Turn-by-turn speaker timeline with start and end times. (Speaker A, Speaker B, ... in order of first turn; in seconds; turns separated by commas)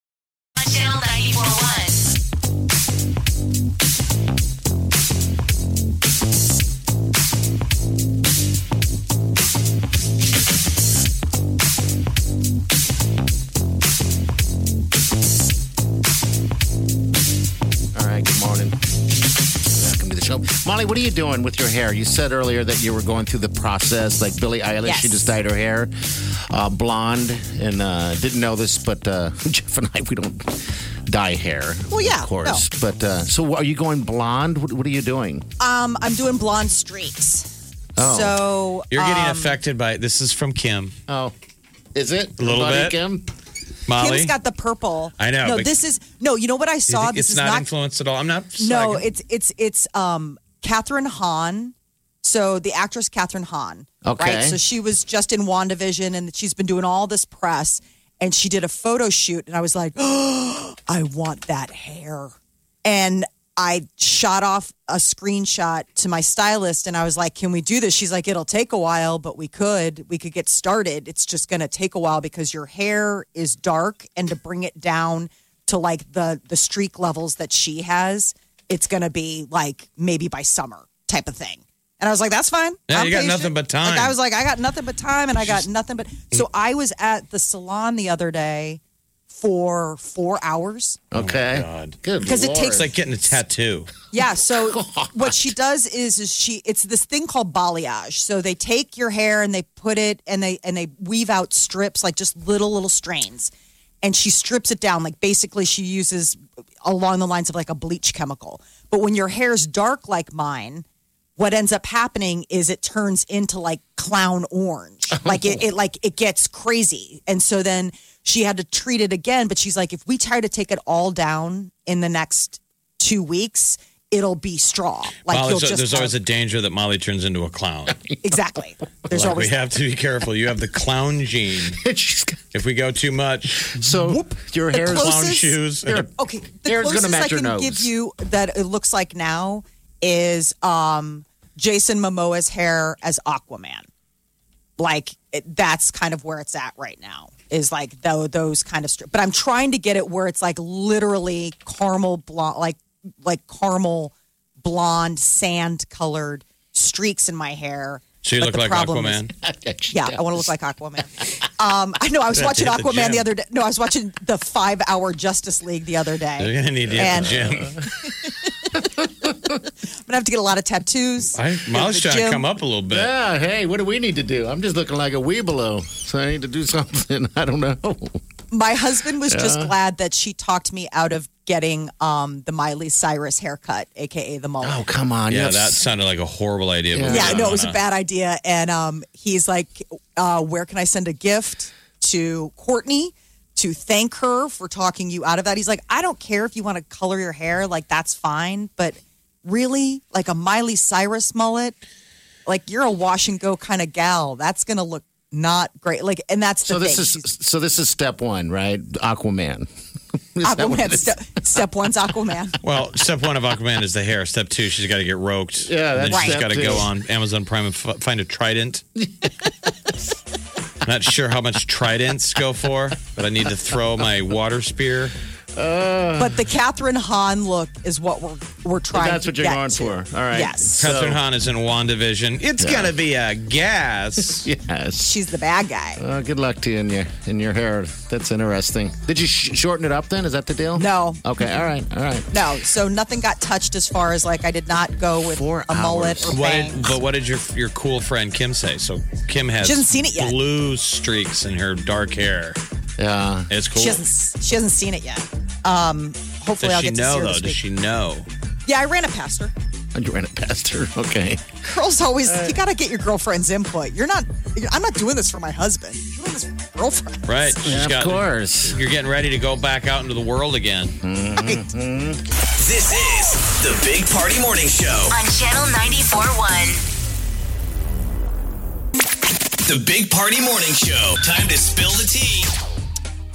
Speaker A: 0.6-2.0, Speaker B: 17.9-18.8, Speaker B: 19.7-25.9, Speaker C: 24.8-25.4, Speaker B: 26.5-35.5, Speaker C: 31.9-32.6, Speaker C: 35.6-39.6, Speaker B: 38.0-38.4, Speaker D: 38.9-41.0, Speaker B: 41.1-41.3, Speaker B: 41.9-43.3, Speaker D: 42.4-43.0, Speaker D: 43.9-44.4, Speaker C: 44.0-47.7, Speaker D: 45.2-45.7, Speaker D: 46.9-49.1, Speaker C: 48.6-62.3, Speaker B: 54.0-54.6, Speaker C: 62.9-91.0, Speaker D: 82.9-84.1, Speaker B: 91.1-92.9, Speaker D: 91.1-92.0, Speaker C: 92.2-92.8, Speaker D: 92.6-93.9, Speaker C: 94.1-110.8, Speaker B: 94.2-95.5, Speaker C: 111.4-126.2, Speaker B: 115.2-115.5, Speaker D: 125.3-128.0, Speaker B: 127.9-128.2, Speaker C: 128.2-129.6, Speaker D: 129.1-131.8, Speaker B: 131.8-132.4, Speaker D: 132.5-133.9, Speaker B: 133.6-135.2, Speaker C: 134.0-135.6, Speaker D: 134.8-136.0, Speaker B: 135.8-137.9, Speaker C: 136.2-143.9, Speaker C: 144.8-159.2, Speaker D: 158.2-159.3, Speaker B: 159.4-160.5, Speaker C: 159.9-168.5, Speaker D: 162.3-163.3, Speaker D: 166.4-167.8, Speaker B: 166.9-167.9, Speaker C: 170.1-172.4, Speaker D: 171.3-173.1, Speaker B: 172.9-178.2, Speaker C: 178.5-184.9, Speaker B: 179.2-179.7, Speaker B: 184.6-185.8, Speaker D: 185.3-187.8, Speaker B: 186.9-187.6, Speaker C: 187.0-201.8, Speaker C: 202.5-207.3, Speaker B: 206.7-209.7, Speaker B: 210.4-211.3, Speaker C: 210.4-212.6, Speaker D: 212.6-218.8, Speaker B: 215.7-216.9, Speaker C: 216.1-216.4, Speaker B: 219.0-219.5, Speaker D: 220.8-225.1, Speaker B: 225.6-226.4, Speaker C: 226.2-230.9, Speaker B: 228.9-231.2, Speaker D: 230.8-234.5, Speaker B: 232.6-232.9, Speaker B: 234.3-235.2, Speaker C: 235.0-236.0, Speaker B: 236.0-242.4, Speaker C: 240.8-241.2, Speaker C: 242.3-246.9, Speaker B: 245.2-246.5, Speaker D: 246.3-252.6, Speaker C: 249.6-250.4, Speaker B: 253.0-253.5, Speaker D: 253.5-254.0, Speaker C: 253.8-257.6, Speaker D: 256.6-258.3, Speaker C: 258.7-259.5, Speaker B: 259.9-261.5, Speaker C: 261.7-267.5, Speaker B: 262.2-262.6, Speaker D: 267.2-271.0, Speaker B: 267.6-268.8, Speaker B: 271.0-272.2, Speaker C: 271.4-271.6, Speaker E: 272.6-275.2, Speaker A: 275.1-276.8, Speaker E: 279.7-282.5